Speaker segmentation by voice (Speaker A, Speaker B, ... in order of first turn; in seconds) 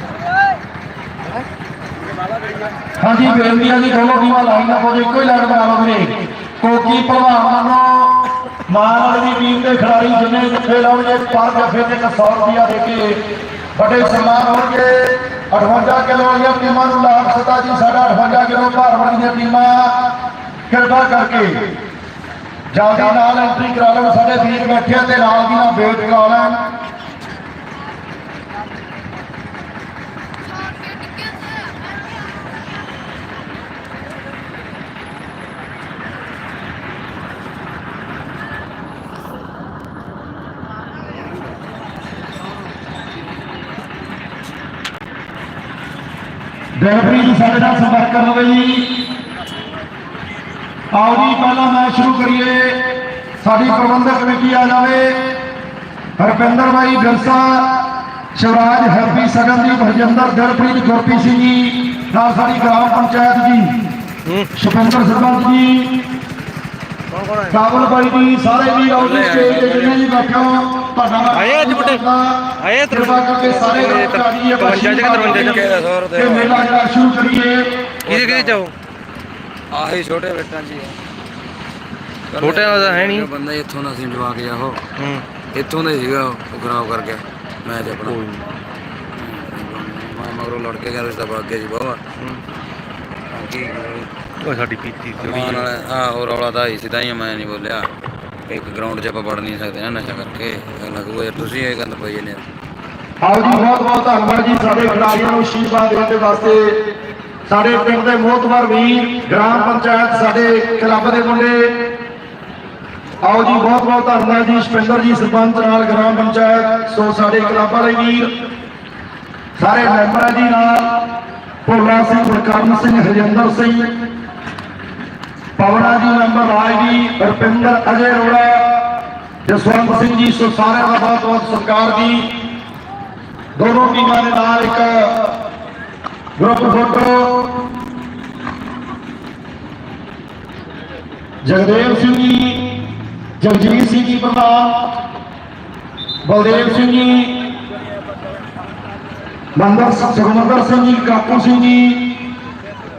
Speaker A: 3.0-13.2, 13.8-20.1, 20.7-21.7, 22.7-26.6, 46.8-49.1, 50.9-55.3, 56.2-63.8, 64.5-66.1, 67.5-77.7, 103.2-106.8, 107.5-111.9, 113.2-118.3, 119.6-121.1, 121.6-124.0, 125.6-128.8, 129.4-132.4, 133.6-135.2, 136.4-137.5, 141.4-142.8, 143.4-144.9, 146.2-147.5, 149.6-152.2
Speaker B: 64.2-64.5, 67.1-67.6, 71.3-72.0, 72.6-75.7, 78.1-78.7, 82.4-83.3, 85.0-85.2, 88.0-88.5, 94.4-95.7
Speaker C: 69.0-70.0, 75.2-76.7, 78.1-78.6, 79.7-80.9, 82.3-84.8, 85.5-88.2, 89.1-92.0, 93.3-94.1, 95.2-97.9, 98.5-102.4